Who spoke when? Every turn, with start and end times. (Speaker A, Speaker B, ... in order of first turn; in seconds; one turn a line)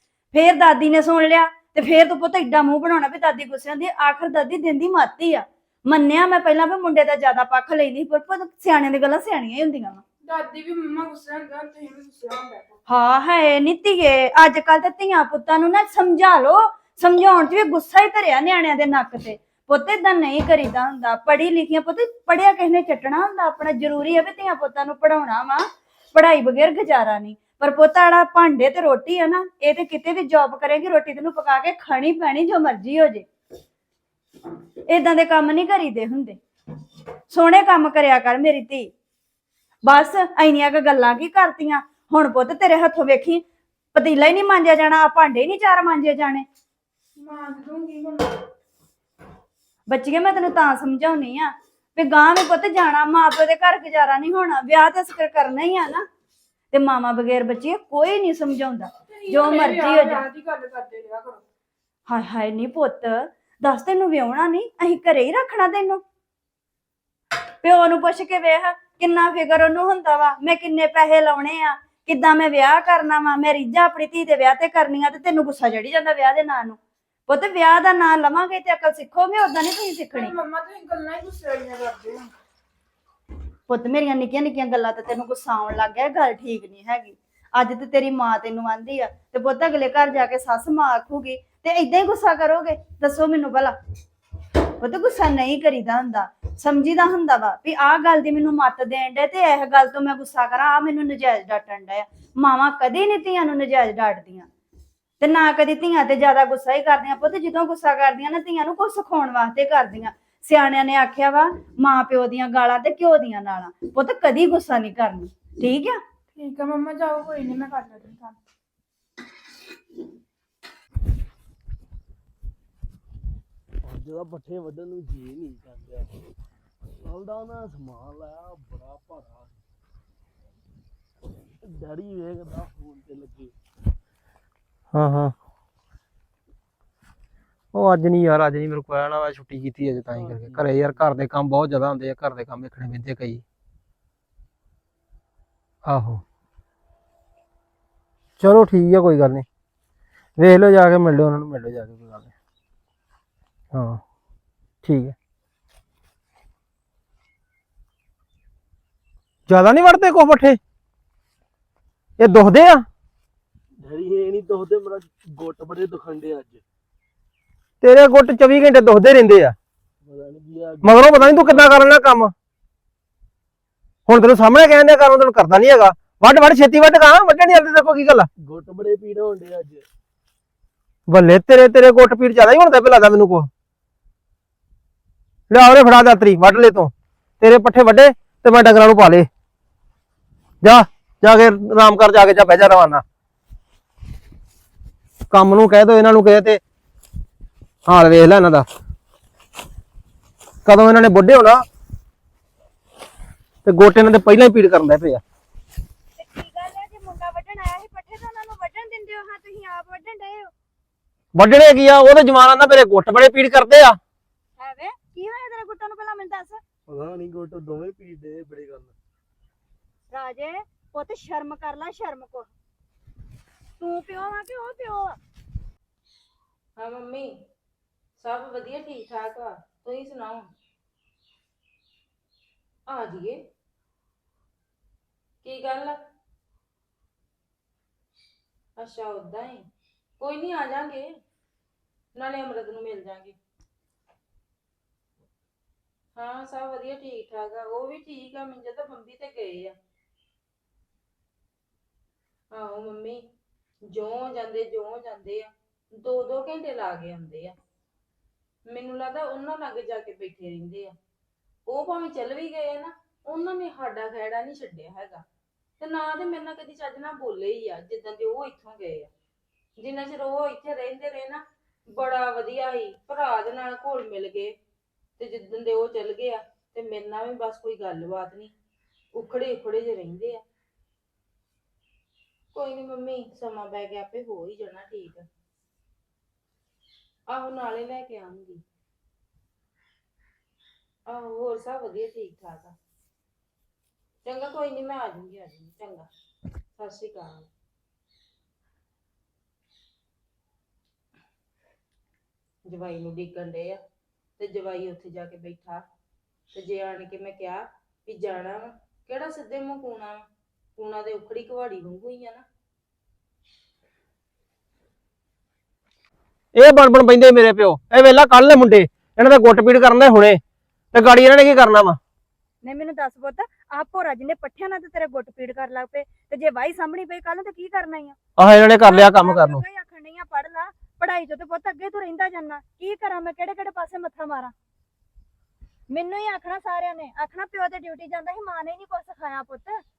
Speaker A: 0.3-10.0
Speaker B: 10.2-12.8
Speaker A: 12.9-33.2
Speaker A: 34.9-36.4
Speaker A: 37.3-38.9
Speaker A: 39.8-43.4
Speaker A: 43.9-46.4
Speaker B: 47.2-48.3
Speaker A: 49.9-56.0
Speaker A: 56.7-60.2
Speaker B: 59.1-61.4
Speaker A: 62.1-66.0
Speaker A: 67.6-80.3
Speaker B: 80.1-82.3
Speaker A: 83.7-93.7
Speaker A: 94.8-104.5
Speaker A: 105.2-116.0
Speaker B: 116.3-118.4
Speaker C: 123.8-126.1
Speaker C: 126.9-129.6
Speaker C: 131.6-133.5
Speaker D: 134.9-135.3
Speaker D: 137.7-143.4
Speaker C: 140.1-141.0
Speaker D: 145.8-146.2
Speaker D: 148.4-149.4
Speaker D: 150.4-152.3
Speaker D: 153.7-154.0
Speaker D: 154.8-155.1
Speaker D: 159.5-160.6
Speaker D: 162.2-162.8
Speaker C: 163.8-166.6
Speaker D: 167.8-169.6
Speaker C: 170.0-172.1
Speaker D: 170.8-172.3
Speaker D: 174.1-178.3
Speaker C: 178.4-179.8
Speaker D: 181.1-183.5
Speaker D: 185.5-189.3
Speaker D: 190.6-193.0
Speaker D: 195.3-196.6
Speaker D: 197.8-198.7
Speaker D: 200.7-201.6
Speaker D: 203.6-205.2
Speaker A: 206.2-210.5
Speaker D: 211.3-214.0
Speaker A: 214.6-216.6
Speaker C: 216.9-218.9
Speaker A: 220.1-222.5
Speaker A: 223.8-225.2
Speaker E: 226.8-227.3
Speaker E: 228.2-230.5
Speaker E: 232.9-233.4
Speaker E: 235.4-236.0
Speaker E: 238.8-239.6
Speaker E: 240.2-241.1
Speaker E: 242.2-243.3
Speaker E: 246.2-249.7
Speaker E: 252.5-253.2
Speaker E: 253.9-257.6
Speaker E: 258.7-260.9
Speaker E: 261.7-265.2
Speaker E: 265.8-269.1
Speaker E: 269.8-274.5
Speaker E: 275.2-278.5
Speaker E: 279.1-280.4
Speaker E: 282.5-285.2
Speaker E: 287.3-288.6
Speaker E: 291.1-292.7
Speaker E: 294.2-296.1
Speaker E: 296.8-297.5
Speaker E: 302.6-303.8
Speaker E: 304.4-305.8
Speaker E: 306.5-310.2
Speaker E: 310.8-312.4
Speaker D: 316.5-320.4
Speaker D: 320.9-322.0
Speaker A: 322.6-328.1
Speaker D: 328.4-329.6
Speaker A: 328.8-334.5
Speaker A: 335.9-339.8